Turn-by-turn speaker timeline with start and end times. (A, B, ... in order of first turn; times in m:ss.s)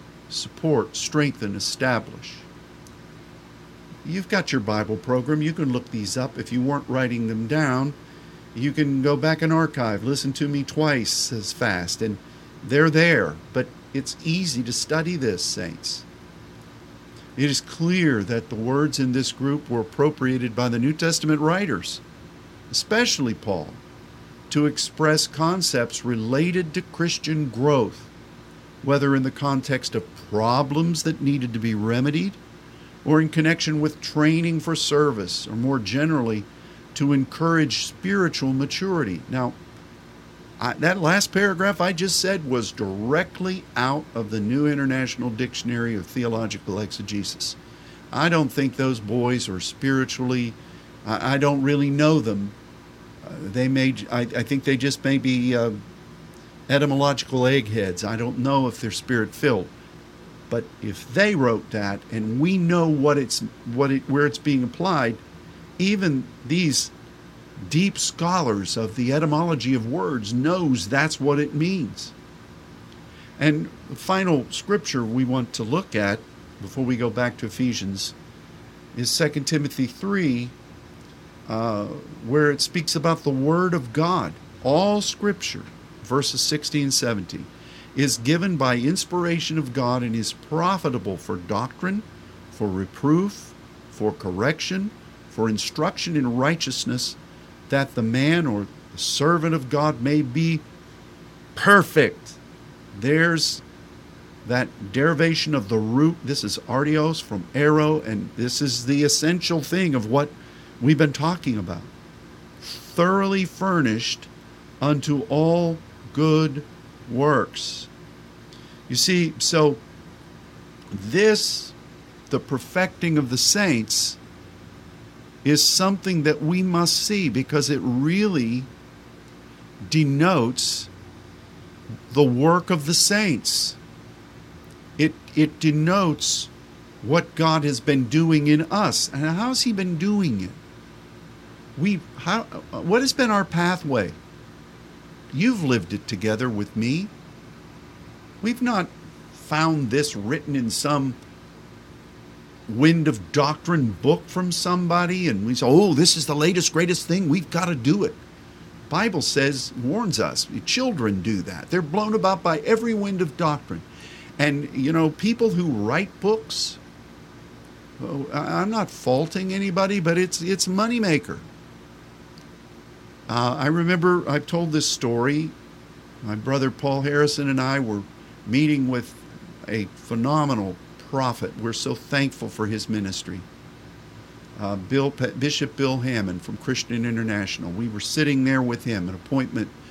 0:00.3-0:02.5 A
0:04.0-0:08.0 A
0:08.5-0:16.1 A
0:17.4-0:22.0 A
0:22.7-0:23.8 A
0:24.5-0:28.1 A
0:28.8-0:32.4 A
0:33.0-0:39.6 A
0:40.6-0:47.6 A
0:48.1-0:52.5 A
0:53.2-0:55.8 A
0:56.7-0:59.7 A
1:00.5-1:05.2 A
1:05.8-1:06.9 A
1:07.7-1:12.1 A
1:13.4-1:18.2 A
1:18.9-1:20.6 A
1:21.5-1:37.2 A
1:37.7-1:40.6 A
1:41.6-1:42.4 A
1:42.9-1:43.6 A
1:44.4-1:51.9 A
1:52.6-1:54.3 A
1:54.8-1:57.9 A
1:58.9-1:59.8 A
2:00.9-2:01.8 A
2:02.3-2:04.2 A
2:05.4-2:08.7 A
2:09.8-2:10.9 A
2:12.1-2:13.8 A
2:15.0-2:20.6 A
2:21.8-2:24.2 A
2:25.3-2:27.1 A
2:28.4-2:31.2 A
2:32.7-2:38.2 A
2:38.9-2:43.9 A
2:44.4-2:46.8 A
2:48.0-2:51.5 A
2:53.3-2:55.6 A
2:56.2-3:03.5 A
3:04.6-3:09.7 A